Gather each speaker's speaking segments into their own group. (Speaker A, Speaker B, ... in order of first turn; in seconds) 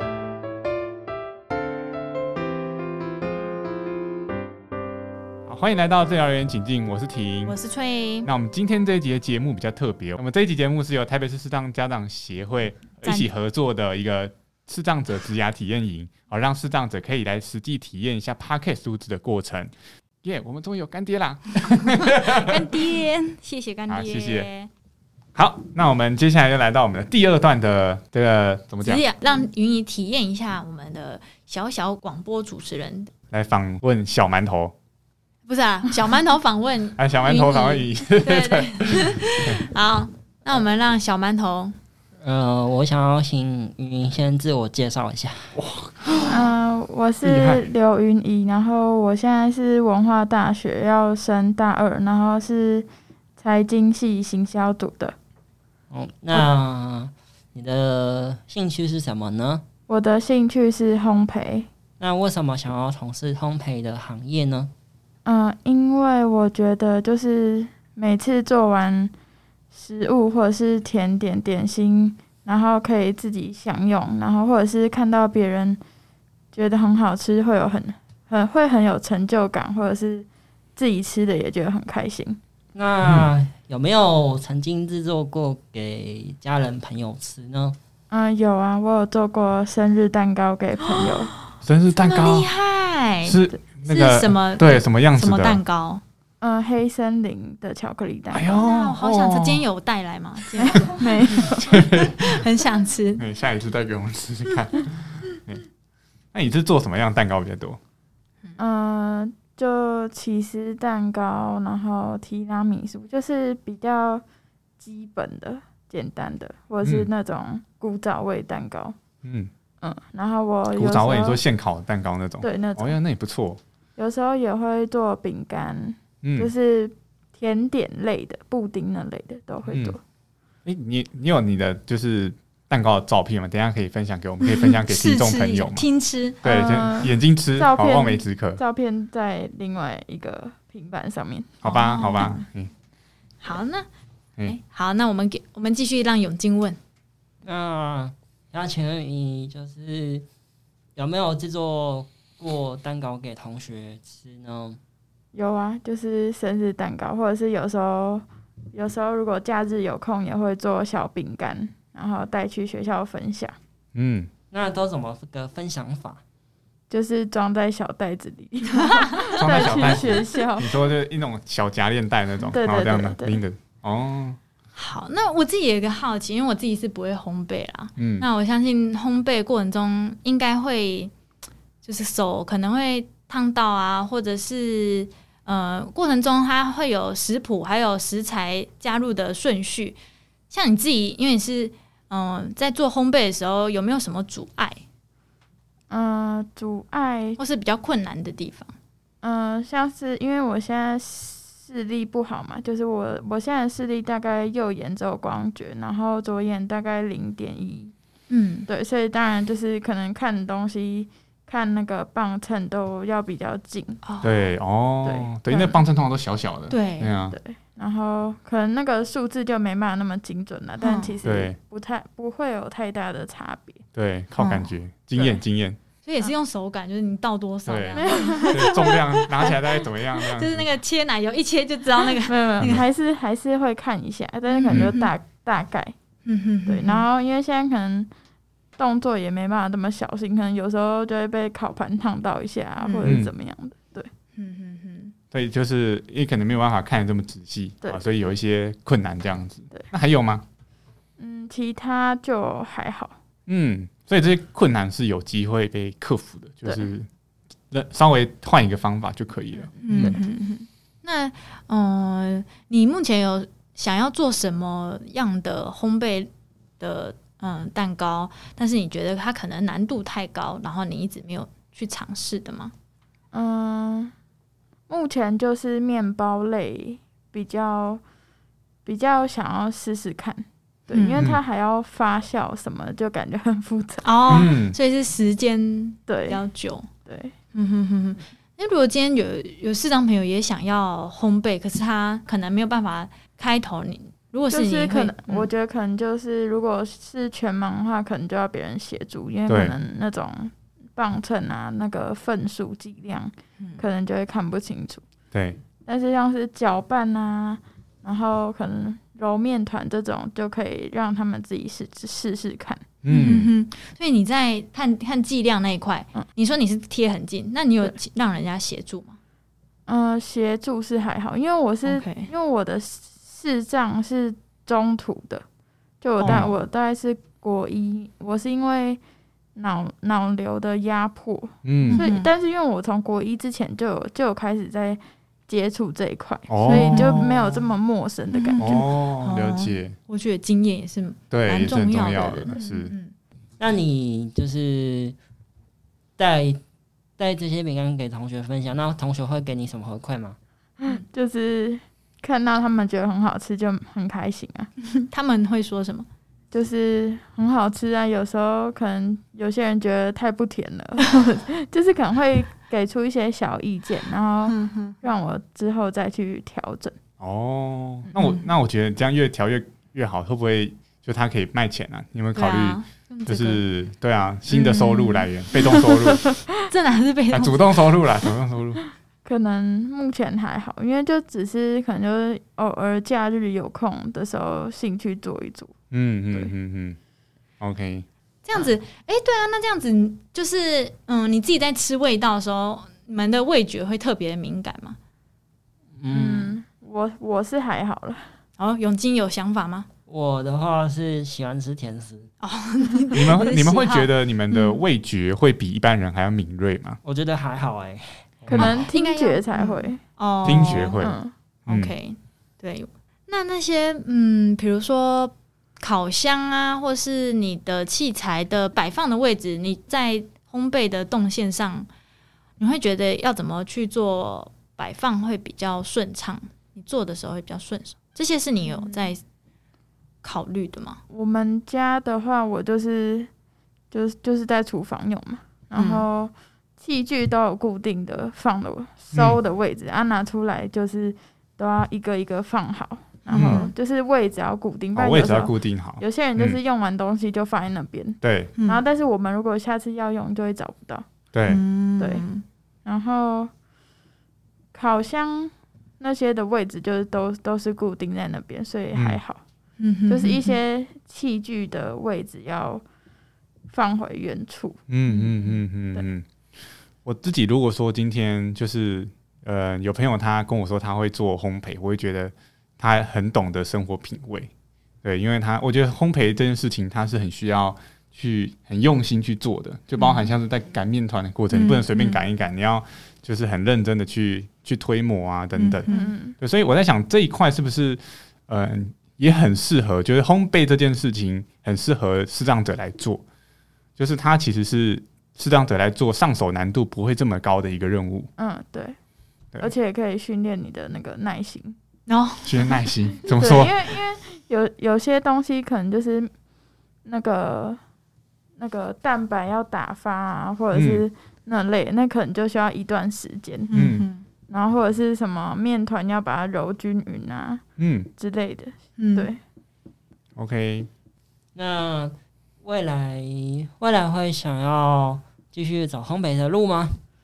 Speaker A: 5.5-7.6, 8.2-19.7, 20.2-22.6, 23.9-24.5, 25.4-29.0, 33.3-34.7, 37.0-39.6, 45.6-46.1, 83.0-83.3, 91.6-92.5, 93.2-95.6, 98.3-99.7, 101.6-102.3, 103.2-105.6, 106.3-107.8, 116.8-117.1, 119.2-119.5, 120.7-123.6, 126.2-126.5, 129.7-130.0, 130.7-135.9, 136.4-138.6, 141.6-142.7, 163.9-164.3, 169.4-174.4, 178.0-178.3, 214.2-217.4, 221.2-221.6, 223.9-225.8, 227.7-230.7, 243.0-243.3, 245.3-250.4, 253.5-257.1, 257.7-260.2, 284.3-284.8, 299.5-299.8, 305.3-305.6, 313.0-313.5, 326.2-326.5, 331.6-332.1, 336.5-337.2, 338.6-340.0, 341.3-342.9, 367.2-376.4, 377.3-378.8, 385.9-387.0, 387.6-388.1, 403.1-407.0, 410.4-411.9, 439.1-439.4, 443.3-443.6, 444.9-446.6, 448.2-448.5, 451.3-451.6, 458.9-459.2, 464.9-466.3, 467.0-474.5, 475.0-493.2, 494.0-498.3, 502.4-503.8, 510.7-511.1, 513.7-514.1, 517.8-518.1, 520.4-520.9
Speaker B: 7.5-8.3, 13.0-13.3, 22.0-24.7, 28.8-33.1, 35.5-41.8, 90.9-91.3, 92.0-96.0, 98.5-103.2, 134.4-136.4, 141.7-142.4, 143.4-143.9, 144.4-146.8, 169.4-170.2, 174.8-181.1, 181.8-190.0, 190.5-194.8, 197.4-198.7, 208.3-208.7, 214.1-214.3, 216.7-217.1, 220.8-221.2, 224.4-224.7, 226.1-232.8, 234.5-235.1, 236.2-237.1, 242.8-243.2, 244.4-245.1, 259.8-272.7, 280.9-281.3, 284.0-286.9, 287.6-295.5, 313.1-319.2, 321.9-322.3, 326.2-326.5, 331.9-332.3, 336.6-337.7, 338.3-343.1, 354.8-356.1, 364.5-365.0, 368.1-368.4, 372.3-373.6, 374.5-375.3, 376.7-377.9, 388.4-395.0, 398.6-399.9, 402.4-404.8, 408.5-411.0, 411.7-421.9, 422.6-429.2, 430.2-431.0, 435.8-436.1, 443.3-443.7, 448.6-448.8, 451.5-452.4, 459.8-460.6, 465.1-465.6, 480.0-480.3, 481.5-482.2, 485.6-486.1, 502.1-502.8, 513.7-514.2, 519.0-519.3
Speaker C: 42.2-45.6, 47.2-47.6, 55.9-59.6, 62.0-64.7, 82.7-87.8, 147.4-150.3, 150.9-154.8, 164.5-166.2, 343.6-345.2, 346.2-346.6, 347.2-350.4, 396.0-396.6, 400.1-402.3, 407.0-408.7, 521.5-527.0
Speaker D: 46.3-52.9, 53.4-55.1, 59.9-61.7, 65.2-69.1, 69.7-75.8, 76.5-82.4, 88.1-91.3, 96.4-98.5, 100.6-101.8, 108.6-114.2, 114.8-119.0, 119.8-121.4, 122.4-123.0, 124.0-130.0, 136.4-142.3, 155.3-163.6, 166.9-170.8, 172.5-173.4, 195.9-197.4, 199.2-207.9, 208.7-214.0, 215.0-215.8, 217.3-223.8, 228.0-229.1, 232.2-235.9, 236.7-238.1, 238.8-244.1, 251.2-253.2, 259.9-260.2, 273.3-274.1, 274.9-278.0, 278.9-284.1, 286.1-286.4, 287.1-287.3, 294.5-305.0, 305.9-312.8, 319.9-325.4, 326.0-329.0, 329.6-338.8, 350.8-354.7, 356.5-366.9, 379.2-385.7, 396.1-398.3, 408.5-411.3, 428.7-429.1, 431.1-433.3, 433.9-451.1, 452.0-452.2, 452.9-453.5, 454.7-459.4, 460.1-462.8, 463.7-464.8, 485.9-486.4, 498.4-499.0, 499.6-501.8, 503.4-506.3, 507.1-507.8, 508.6-513.8, 514.5-517.6, 518.2-519.4